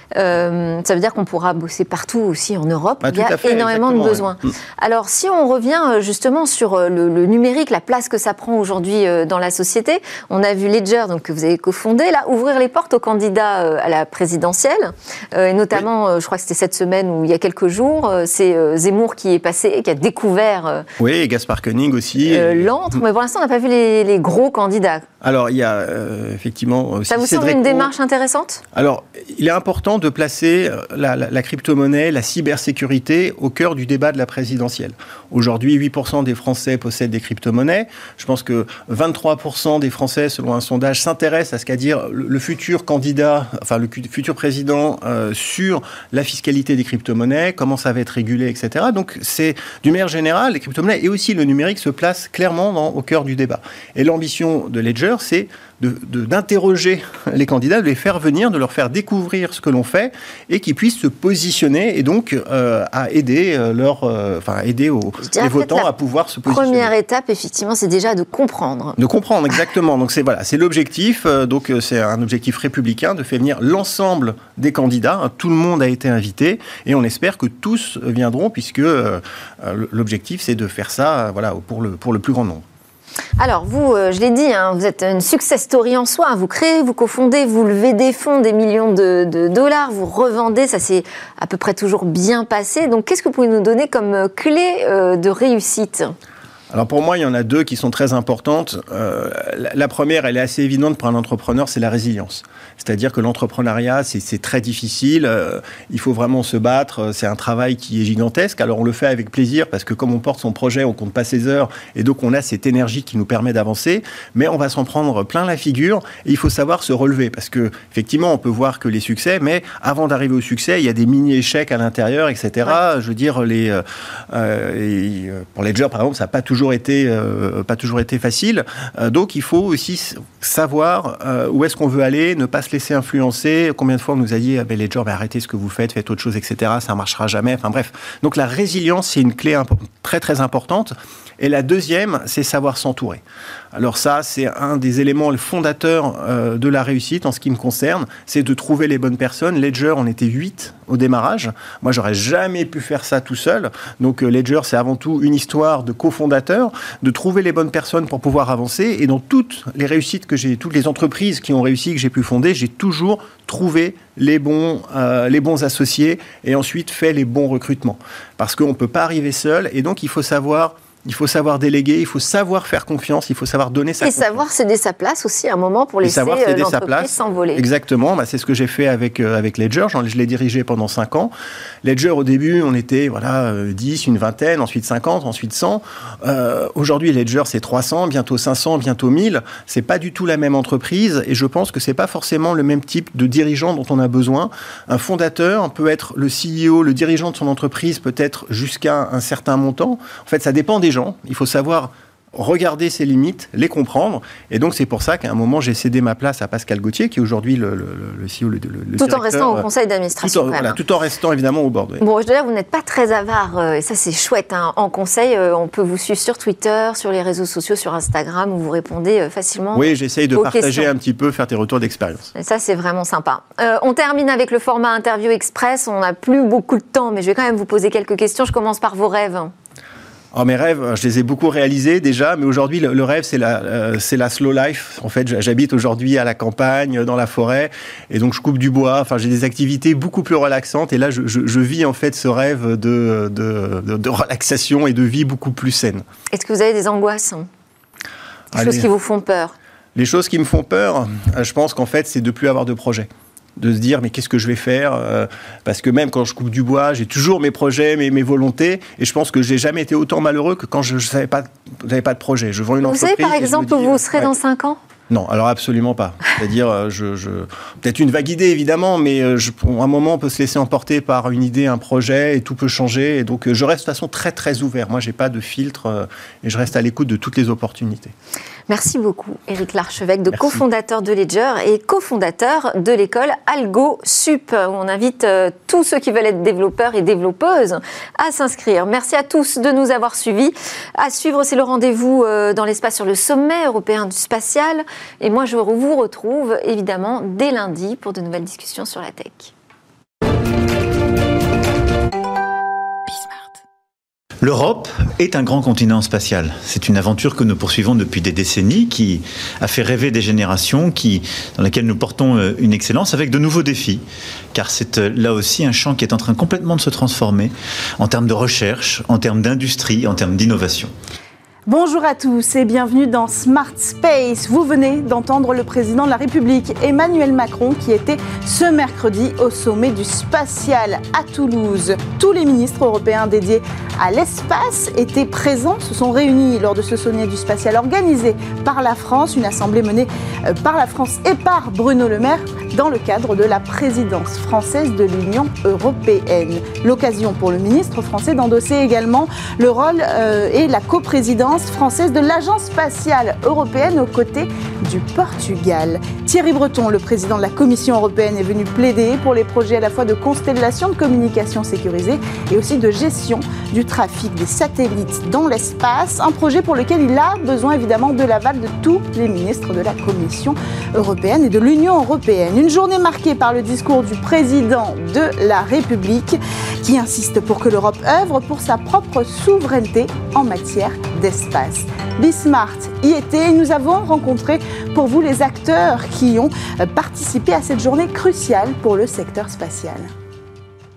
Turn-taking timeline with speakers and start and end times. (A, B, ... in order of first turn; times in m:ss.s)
0:00.2-0:20.9 A
0:03.0-0:04.5 B
0:21.0-0:22.7 B
0:22.2-0:25.0 A
0:25.2-0:27.9 B
0:27.1-0:28.6 A
0:28.7-1:06.9 B
1:05.2-1:05.9 A
1:06.4-1:09.0 A
1:09.0-1:22.6 B
1:23.4-1:36.1 A
1:36.7-2:23.2 B
2:23.7-2:54.4 B
2:54.0-2:57.6 A
2:56.0-3:01.3 B
3:01.8-3:29.7 B
3:29.0-3:30.8 A
3:30.2-3:32.0 B
3:32.0-3:40.9 A
3:39.7-3:42.3 B
3:42.4-3:49.5 A
3:50.3-4:06.0 B
4:06.3-4:07.5 A
4:08.5-4:08.9 B
4:08.5-4:09.6 A
4:10.0-4:24.3 B
4:22.8-4:24.8 A
4:25.1-4:38.1 B
4:38.7-4:59.5 A
4:40.3-4:40.6 B
5:04.4-5:20.9 C
5:21.7-6:30.1 D